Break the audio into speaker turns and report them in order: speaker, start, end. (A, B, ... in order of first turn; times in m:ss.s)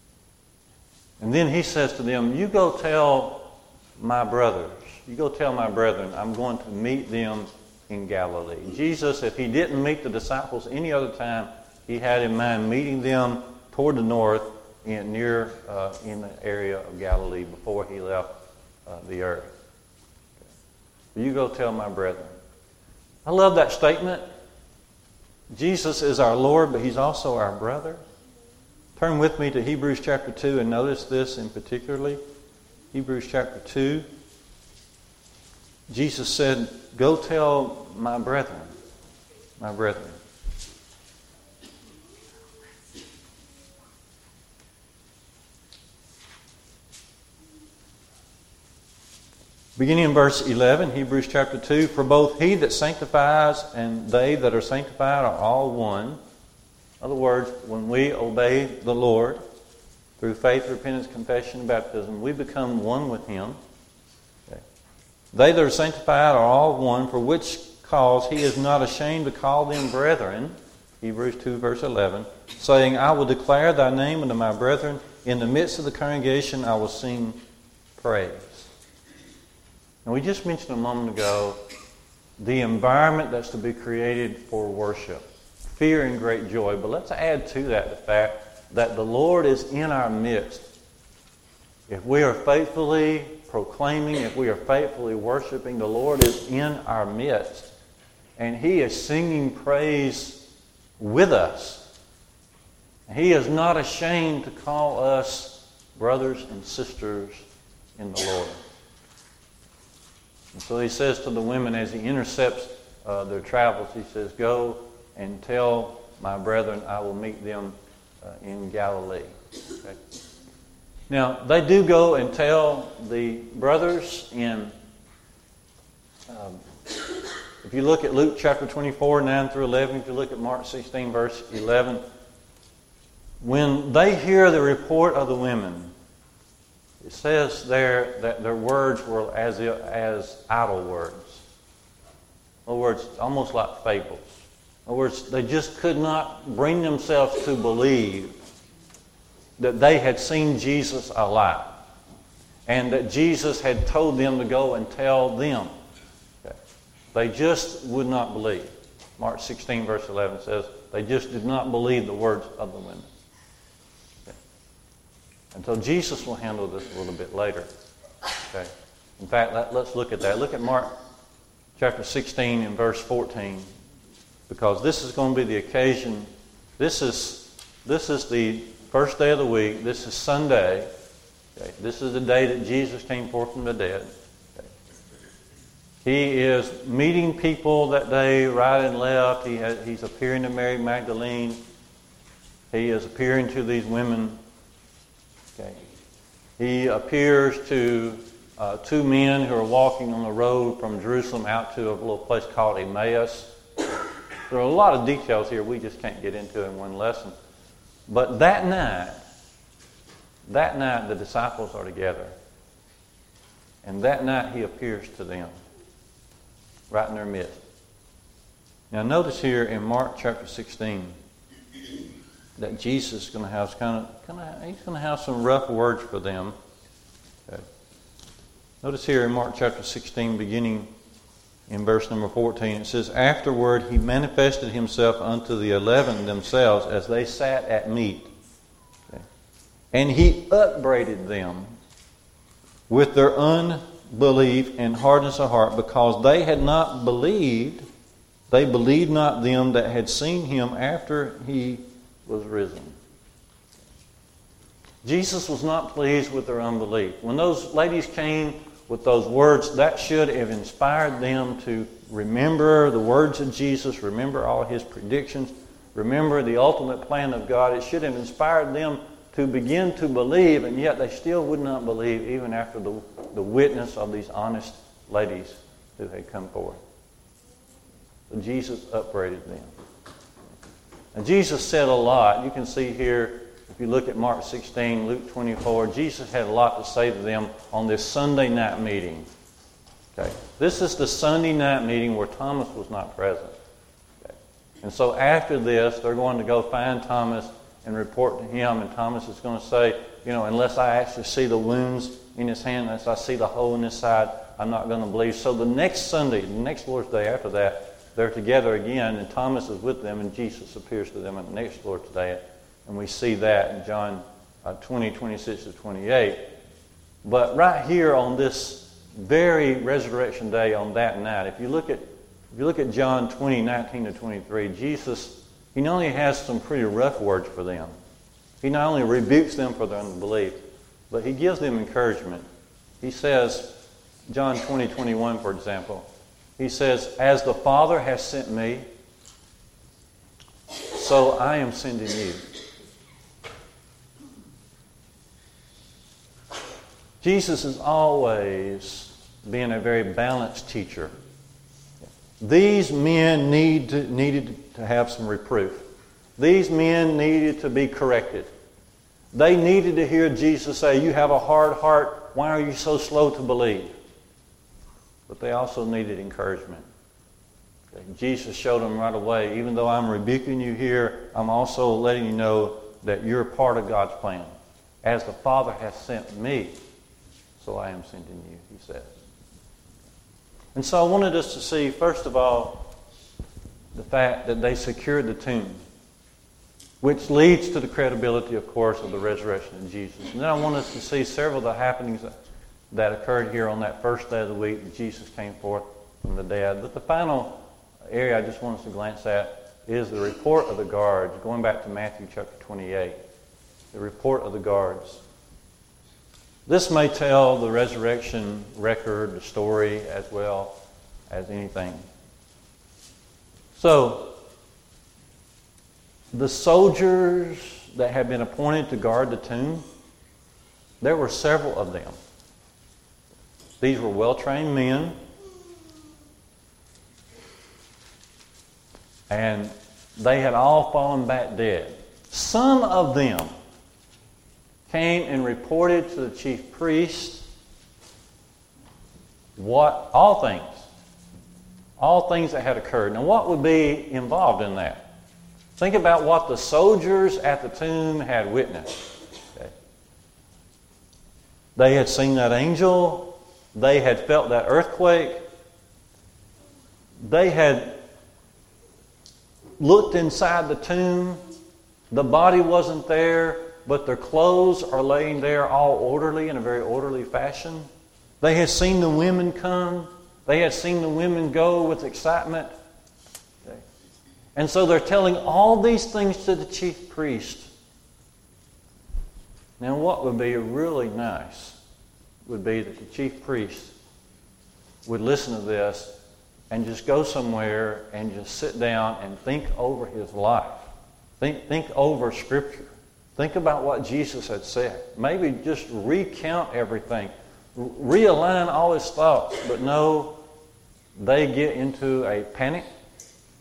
0:01.2-0:18.3 A
0:18.8-0:19.5 A
0:21.1-0:22.3 A
0:23.2-0:24.2 A
0:25.5-0:28.0 A
0:29.0-0:32.2 A
0:32.9-0:34.0 A
0:35.9-0:38.7 A
0:39.6-0:40.2 A
0:49.8-0:56.2 A
0:57.0-0:59.4 A
1:00.2-1:03.6 A
1:05.3-1:17.4 A
1:18.0-1:18.7 A
1:20.0-1:21.6 A
1:22.4-1:30.7 A
1:31.9-1:37.7 A
1:38.4-1:40.4 A
1:41.0-1:41.8 A
1:43.1-1:47.4 A
1:48.0-1:48.6 A
1:50.5-2:00.0 A
2:01.1-2:04.7 A
2:06.3-2:06.7 A
2:07.6-2:12.0 A
2:13.4-2:15.9 A
2:17.0-2:21.4 A
2:22.6-2:28.4 A
2:29.6-2:31.8 A
2:32.6-2:35.7 A
2:37.1-2:43.1 A
2:45.5-2:47.7 A
2:48.4-2:50.9 A
2:51.8-2:53.7 A
2:54.5-3:00.9 A
3:01.6-3:04.7 A
3:06.0-3:11.6 A
3:12.7-3:14.4 A
3:15.6-3:15.8 A
3:16.6-3:23.5 A
3:24.5-3:27.3 A
3:28.1-3:29.2 A
3:30.5-3:32.3 A
3:33.8-3:35.5 A
3:36.9-3:37.6 A
3:38.9-3:41.2 A
3:42.6-3:46.5 A
3:48.8-3:50.9 A
3:51.7-3:58.3 A
3:59.9-4:01.7 A
4:02.9-4:07.8 A
4:08.5-4:13.0 A
4:15.0-4:36.8 A
4:38.3-4:39.7 A
4:41.1-4:49.3 A
4:50.1-4:53.5 A
4:54.2-5:16.5 A
5:17.2-5:27.9 A
5:28.6-5:30.6 A
5:31.1-5:32.4 A
5:33.0-5:33.7 A
5:34.3-5:36.1 A
5:36.6-5:38.8 A
5:40.8-5:42.5 A
5:47.2-5:51.1 A
5:52.4-5:55.8 A
5:56.4-5:58.5 A
5:59.3-6:03.9 A
6:05.3-6:06.8 A
6:07.9-6:14.5 A
6:15.0-6:16.8 A
6:17.6-6:19.1 A
6:20.7-6:22.9 A
6:23.9-6:25.8 A
6:27.0-6:32.3 A
6:32.9-6:43.2 A
6:43.9-6:45.2 A
6:46.6-6:50.7 A
6:51.3-6:52.0 A
6:53.8-6:54.3 A
6:56.3-6:59.8 A
7:01.0-7:02.2 A
7:03.8-7:05.2 A
7:09.3-7:13.5 A
7:14.9-7:17.5 A
7:19.6-7:20.9 A
7:22.0-7:25.0 A
7:25.8-7:29.7 A
7:31.8-7:35.4 A
7:37.2-7:38.0 A
7:39.8-7:41.4 A
7:42.1-7:47.9 A
7:48.4-7:52.7 A
7:54.6-7:57.7 A
7:59.8-8:01.8 A
8:02.4-8:03.9 A
8:05.0-8:06.1 A
8:06.7-8:10.9 A
8:11.4-8:20.4 A
8:21.2-8:22.8 A